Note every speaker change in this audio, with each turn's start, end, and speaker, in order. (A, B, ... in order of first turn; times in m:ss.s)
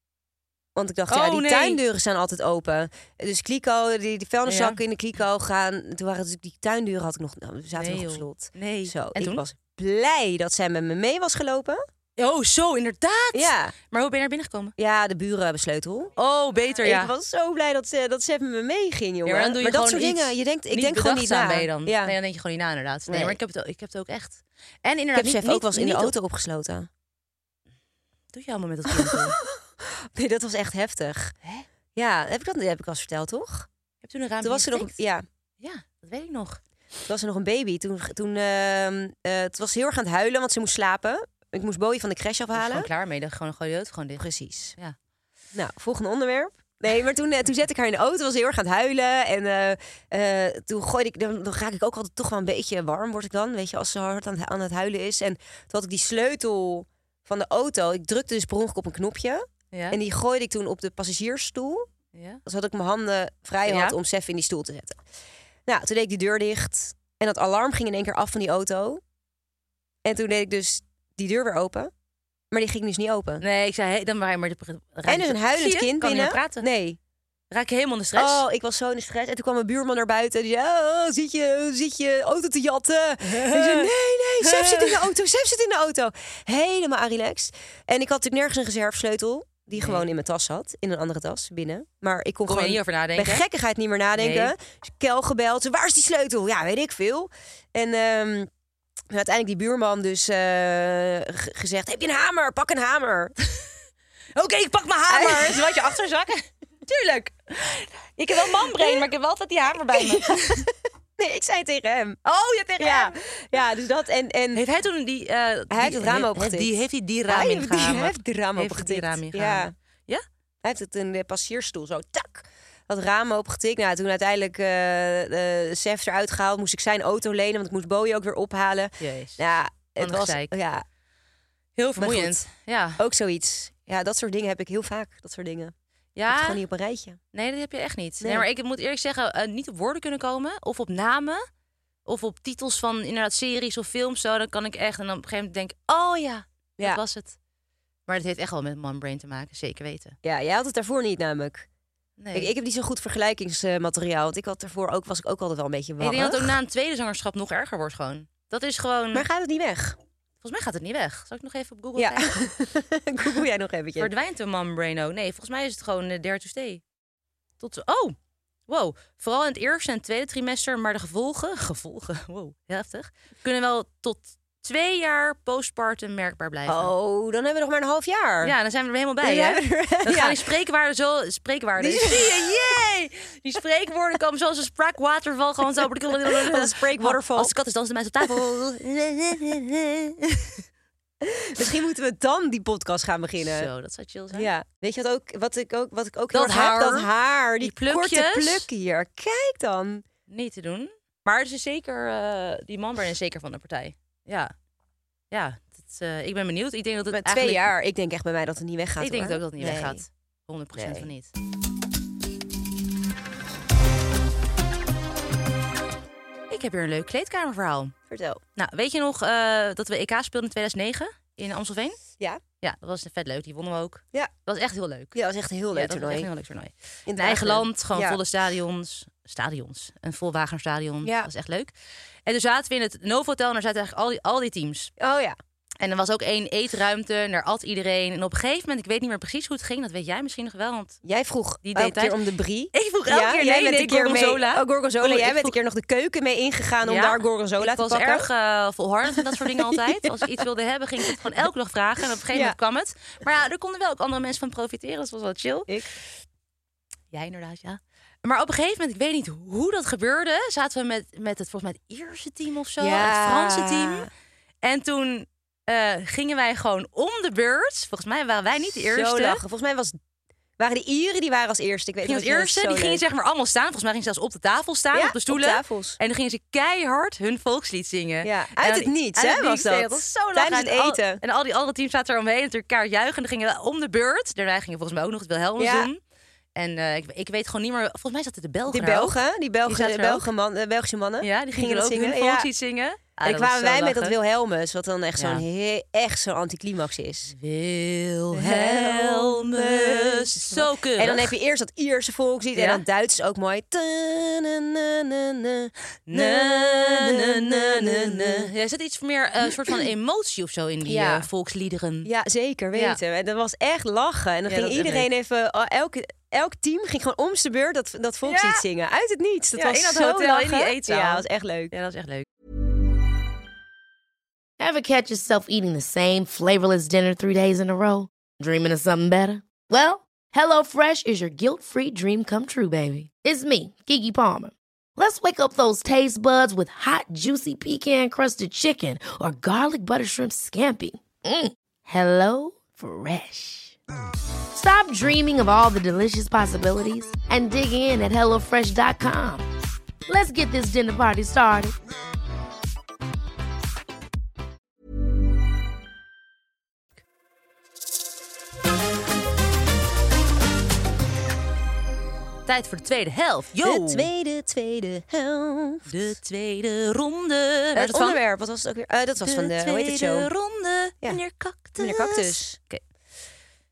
0:00.7-0:11.8 A
0:01.1-0:01.8 B
0:04.5-0:04.8 B
0:07.8-0:09.4 B
0:12.2-0:14.7 B
0:13.3-0:13.7 A
0:14.8-0:16.1 A
0:16.2-0:17.1 B
0:16.8-0:22.2 A
0:19.2-0:26.1 B
0:23.1-0:23.4 A
0:25.1-0:26.9 A
0:28.3-0:29.4 B
0:28.9-0:31.3 A
0:31.9-0:33.7 A
0:34.0-0:34.9 B
0:34.4-0:35.2 A
0:35.6-0:36.6 B
0:37.1-0:42.9 A
0:42.5-0:44.2 B
0:44.2-0:44.8 A
0:45.5-1:01.9 A
0:59.7-1:00.0 B
1:02.1-1:02.4 B
1:02.4-1:05.0 A
1:03.6-1:04.0 B
1:05.6-1:09.0 A
1:10.0-1:11.9 A
1:12.5-1:13.4 A
1:13.4-1:16.6 B
1:15.0-1:17.0 A
1:17.5-1:18.4 B
1:18.1-1:38.5 A
1:23.2-1:23.9 B
1:24.4-1:25.0 B
1:29.8-1:30.0 B
1:32.4-1:33.4 B
1:34.2-1:34.5 B
1:39.1-1:43.3 A
1:44.4-1:50.7 B
1:45.1-1:45.7 A
1:48.4-1:49.1 A
1:49.9-1:52.2 A
1:52.2-1:53.2 B
1:52.8-1:54.6 A
1:54.5-2:00.2 B
1:55.7-1:59.7 A
2:00.6-2:10.8 A
2:09.0-2:10.5 B
2:11.8-2:13.0 B
2:12.0-2:12.4 A
2:13.0-2:15.7 A
2:16.1-2:16.6 B
2:16.3-2:17.2 A
2:17.3-2:21.4 B
2:18.2-2:18.4 A
2:22.0-2:27.4 B
2:28.1-2:30.2 B
2:30.2-2:31.7 A
2:32.2-2:32.5 B
2:32.3-2:36.6 A
2:36.0-2:39.2 B
2:39.1-2:40.0 A
2:40.4-2:42.4 B
2:42.0-2:44.1 A
2:44.0-2:46.8 B
2:47.6-2:48.2 B
2:48.7-2:56.9 B
2:56.6-2:58.5 A
2:58.4-3:10.6 B
2:59.2-3:00.4 A
3:01.8-3:02.5 A
3:06.2-3:07.5 A
3:11.2-3:13.7 A
3:13.4-3:14.5 B
3:14.3-3:20.0 A
3:16.3-3:17.1 B
3:17.6-3:18.7 B
3:20.3-3:24.5 B
3:25.3-3:27.7 B
3:27.1-3:30.0 A
3:29.0-3:31.3 B
3:30.7-3:31.1 A
3:36.5-3:37.9 B
3:38.1-3:38.4 A
3:38.6-3:42.0 B
3:42.6-3:45.2 B
3:45.1-3:46.3 A
3:45.7-3:51.7 B
3:47.1-3:48.2 A
3:51.0-3:51.3 A
3:52.2-3:54.9 B
3:55.0-3:55.4 A
3:55.8-4:01.0 B
4:01.0-4:08.3 A
4:01.6-4:02.2 B
4:02.7-4:05.5 B
4:06.8-4:15.7 B
4:09.1-4:10.3 A
4:12.3-4:12.6 A
4:17.1-4:24.1 B
4:22.8-4:24.1 A
4:24.6-4:29.4 B
4:28.8-4:30.0 A
4:30.6-4:33.0 A
4:32.0-4:46.0 B
4:34.9-4:36.0 A
4:38.2-4:41.2 A
4:45.6-4:45.9 A
4:46.5-4:50.3 B
4:48.7-4:52.5 A
4:51.2-4:54.2 B
4:53.2-4:57.3 A
4:55.2-4:55.4 B
4:57.3-5:01.3 B
4:58.3-5:08.5 A
5:02.6-5:02.8 B
5:06.1-5:12.1 B
5:09.4-5:09.8 A
5:10.8-5:11.3 A
5:12.0-5:21.7 A
5:12.7-5:13.0 B
5:14.5-5:15.1 B
5:18.2-5:18.6 B
5:19.6-5:22.2 B
5:24.6-5:43.8 C
5:44.5-5:49.4 C
5:50.1-5:51.7 C
6:02.4-6:04.1 B
6:03.6-6:05.9 A
6:05.9-6:08.2 B
6:07.8-6:10.3 A
6:09.2-6:12.8 B
6:11.8-6:12.6 A